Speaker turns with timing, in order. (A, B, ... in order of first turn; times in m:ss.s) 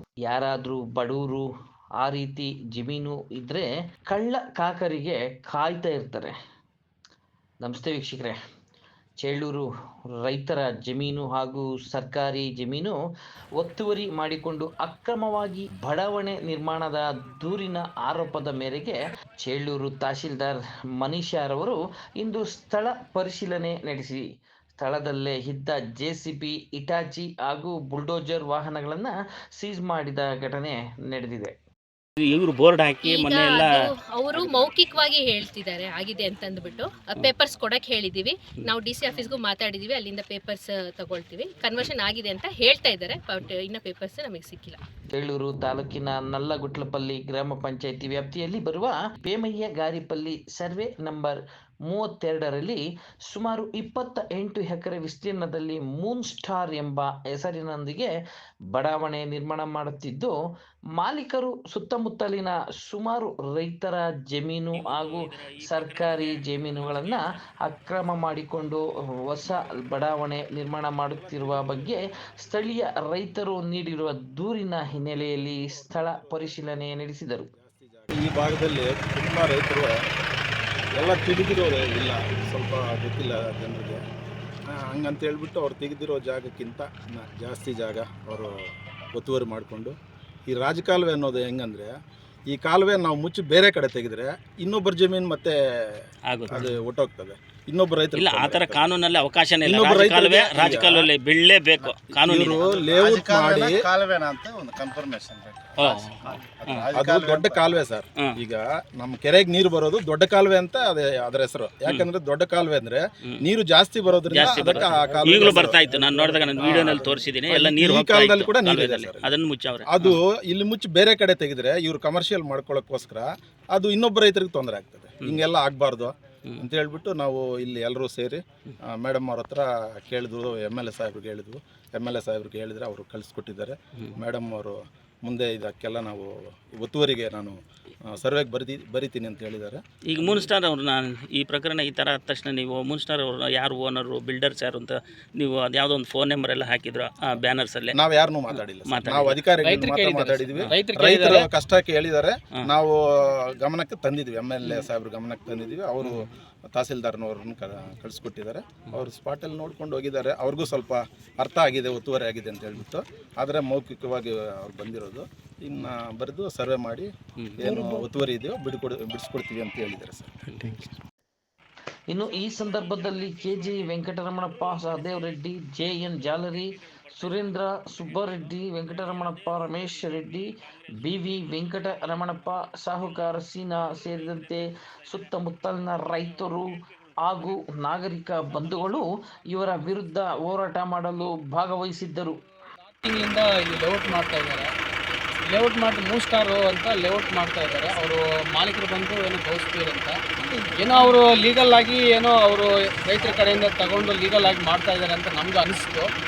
0:00.2-0:01.5 A
0:02.0-0:06.3 A
0:07.6-0:08.4 A
0:09.2-0:09.7 A
0:10.2-0:13.0 A
0:13.6-0:24.2 A
0:24.8-0:31.5 A
0:32.2-0:33.8 B
0:33.0-0:44.8 C
0:45.1-0:58.1 A
0:58.7-1:00.3 A
1:01.0-1:17.5 A
1:04.7-1:07.2 B
1:15.6-1:16.5 D
1:17.5-1:20.0 D
1:21.0-1:24.0 D
1:24.7-1:30.0 D
1:30.5-1:31.9 D
1:32.5-1:39.0 D
1:36.3-1:36.7 B
1:38.2-1:42.4 B
1:39.6-1:41.1 D
1:42.2-1:43.8 D
1:42.5-1:47.8 E
1:45.8-1:46.8 B
1:46.9-1:59.3 D
1:54.3-2:00.2 B
1:59.8-2:19.8 D
2:20.1-2:27.9 B
2:27.9-2:50.3 D
2:28.8-2:29.4 B
2:29.6-2:31.5 F
2:52.1-3:00.5 A
3:01.0-3:06.7 A
3:07.2-3:12.4 A
3:13.0-3:14.7 F
3:15.5-3:20.2 F
3:20.8-3:26.1 F